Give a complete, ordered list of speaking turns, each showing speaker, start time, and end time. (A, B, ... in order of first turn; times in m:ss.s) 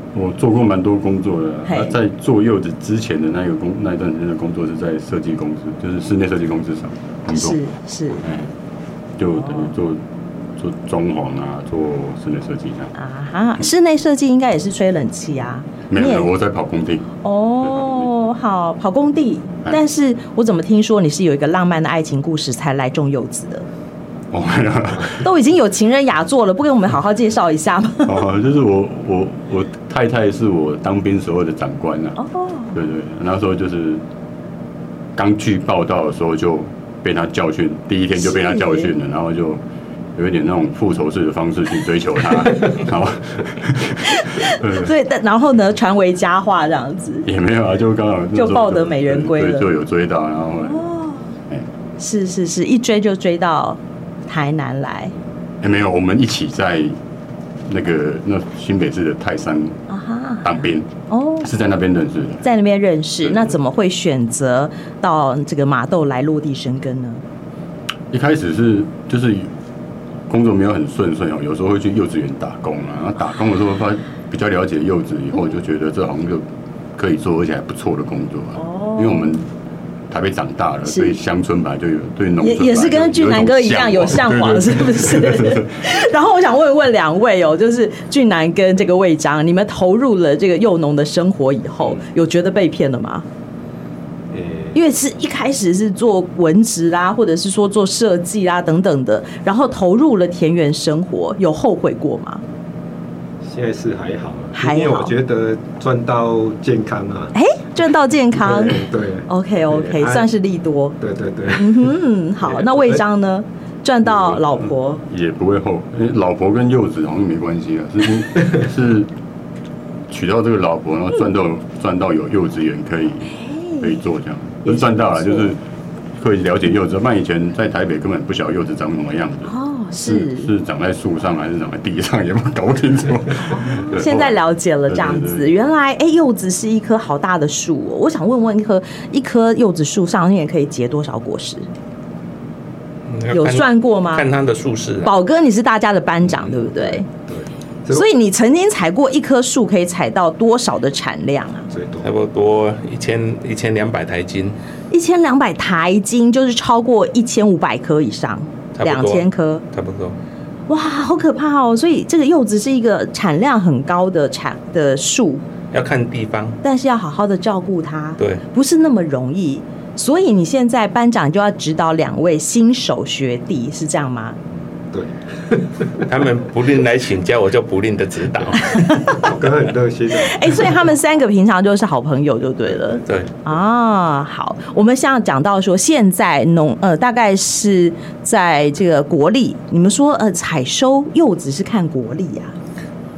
0:00.1-0:07.6 A
0:01.6-0:02.0 B
0:07.3-0:08.2 B
0:08.2-0:08.5 A
0:09.2-0:10.0 A
0:09.3-0:09.8 B
0:10.6-0:12.9 A
0:13.0-0:16.3 B
0:15.9-0:18.1 A
0:17.2-0:23.7 B
0:24.3-0:25.3 A
0:25.2-0:28.2 B
0:28.0-0:32.2 A
0:32.2-0:32.8 B
0:32.7-0:34.0 A
0:35.2-0:39.6 A
0:38.2-0:38.9 B
0:40.2-0:44.9 A
0:44.1-0:47.3 B
0:47.2-0:50.9 A
0:48.3-0:49.7 B
0:50.6-0:51.3 B
0:52.0-0:55.2 B
0:55.6-0:57.0 A
0:57.7-0:59.8 A
0:59.9-1:01.5 B
1:00.4-1:00.9 A
1:01.4-1:02.4 A
1:02.4-1:07.2 B
1:03.2-1:03.5 A
1:08.1-1:09.5 A
1:10.3-1:19.5 A
1:18.6-1:19.4 B
1:20.1-1:25.7 A
1:20.9-1:21.2 B
1:22.4-1:33.3 B
1:34.3-1:34.8 C
1:34.7-1:42.4 B
1:43.5-1:47.3 C
1:44.5-1:45.1 B
1:47.3-1:51.0 B
1:48.3-1:50.3 C
1:51.0-1:53.0 C
1:51.5-1:55.0 B
1:54.1-1:54.6 A
1:55.1-1:59.1 A
2:00.1-2:05.6 A
2:03.3-2:04.0 B
2:04.6-2:05.5 B
2:06.2-2:15.5 A
2:09.5-2:10.5 B
2:13.5-2:21.7 B
2:23.1-2:25.1 D
2:23.3-2:24.3 B
2:25.0-2:27.1 B
2:26.3-2:28.1 C
2:27.9-2:31.7 B
2:31.7-2:32.1 C
2:32.0-2:34.6 D
2:34.9-2:39.6 B
2:38.8-2:40.2 D
2:40.7-2:45.4 B
2:45.7-2:46.6 D
2:46.6-2:54.4 B
2:54.9-2:56.1 C
2:56.1-2:58.8 D
2:58.7-2:59.2 B
2:59.1-3:00.8 C
3:00.2-3:12.6 B
3:03.1-3:03.3 D